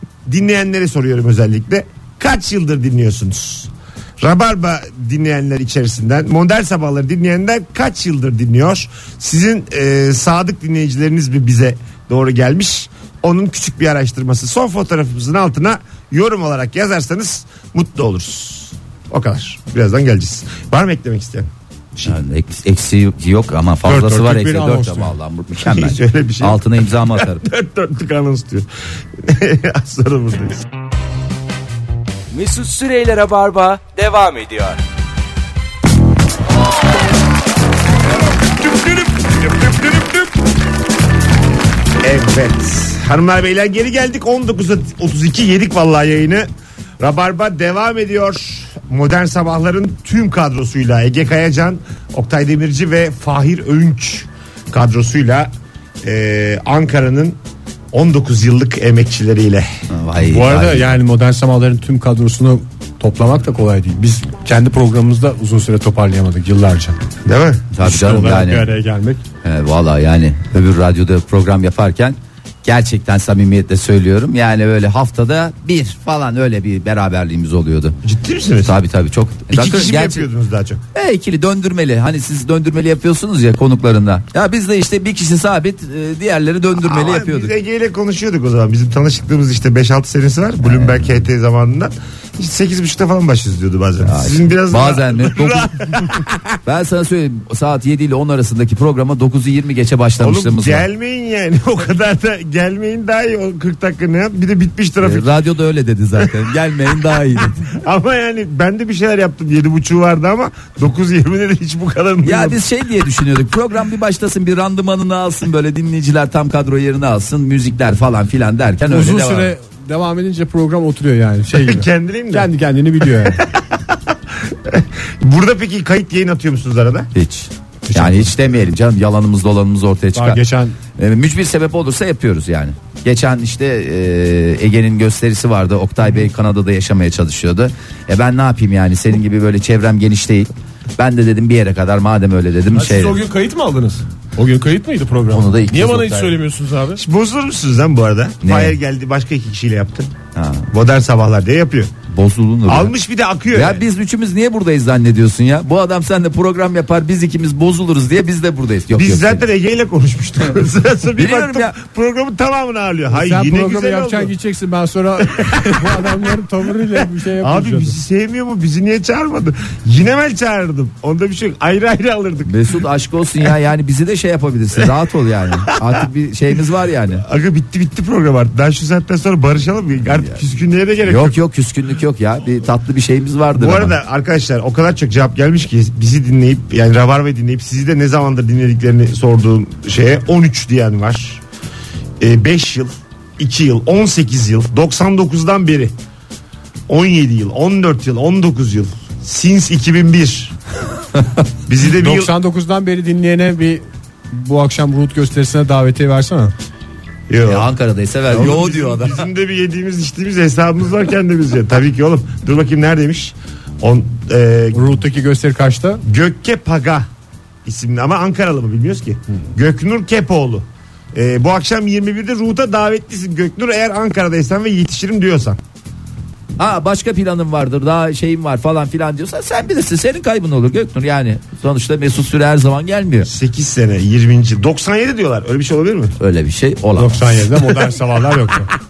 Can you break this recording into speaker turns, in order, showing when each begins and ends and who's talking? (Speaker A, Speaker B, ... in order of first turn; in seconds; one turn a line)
Speaker A: 0.2-22.1
Speaker B: 22.0-27.4
Speaker C: 23.8-25.1
Speaker A: 25.6-30.6
Speaker D: 32.3-34.8
Speaker A: 38.5-40.3
Speaker A: 42.0-46.5
Speaker A: 47.0-55.5
Speaker A: 56.0-57.4
Speaker A: 57.9-59.7
Speaker B: 59.9-60.9
Speaker C: 60.2-67.0
Speaker A: 67.2-67.6
Speaker B: 67.7-68.7
Speaker C: 67.8-69.2
Speaker B: 69.4-77.9
Speaker A: 78.0-78.8
Speaker B: 78.6-80.3
Speaker A: 79.5-80.8
Speaker B: 80.9-87.5
Speaker A: 86.8-96.6
Speaker B: 90.6-91.2
Speaker B: 94.0-96.1
Speaker B: 96.6-100.8
Speaker A: 100.2-105.3
Speaker B: 105.0-107.7
Speaker A: 107.6-112.6
Speaker B: 112.2-119.5
Speaker C: 118.9-123.5
Speaker A: 121.5-122.5
Speaker A: 123.2-127.1
Speaker B: 127.1-130.4
Speaker C: 127.9-128.3
Speaker C: 130.1-130.8
Speaker B: 131.0-143.2
Speaker E: 142.7-147.0
Speaker B: 145.3-146.4
Speaker A: 147.0-150.1
Speaker B: 148.4-148.8
Speaker B: 150.3-150.7
Speaker A: 150.7-151.9
Speaker B: 152.1-152.9
Speaker A: 152.7-153.8
Speaker B: 153.5-159.4
Speaker A: 158.9-164.3
Speaker B: 161.2-161.7
Speaker C: 163.1-168.0
Speaker A: 165.3-166.2
Speaker A: 167.0-172.6
Speaker B: 172.4-177.2
Speaker A: 177.2-181.4
Speaker B: 181.0-183.9
Speaker A: 183.5-191.4
Speaker A: 192.2-195.9
Speaker A: 196.9-200.5
Speaker A: 201.7-202.3
Speaker C: 202.0-206.5
Speaker A: 207.3-207.7
Speaker B: 207.4-209.2
Speaker A: 208.3-214.9
Speaker C: 214.7-216.0
Speaker A: 216.0-217.1
Speaker A: 217.6-225.6
Speaker B: 226.6-233.3
Speaker A: 233.2-236.1
Speaker B: 236.2-237.5
Speaker C: 237.0-238.7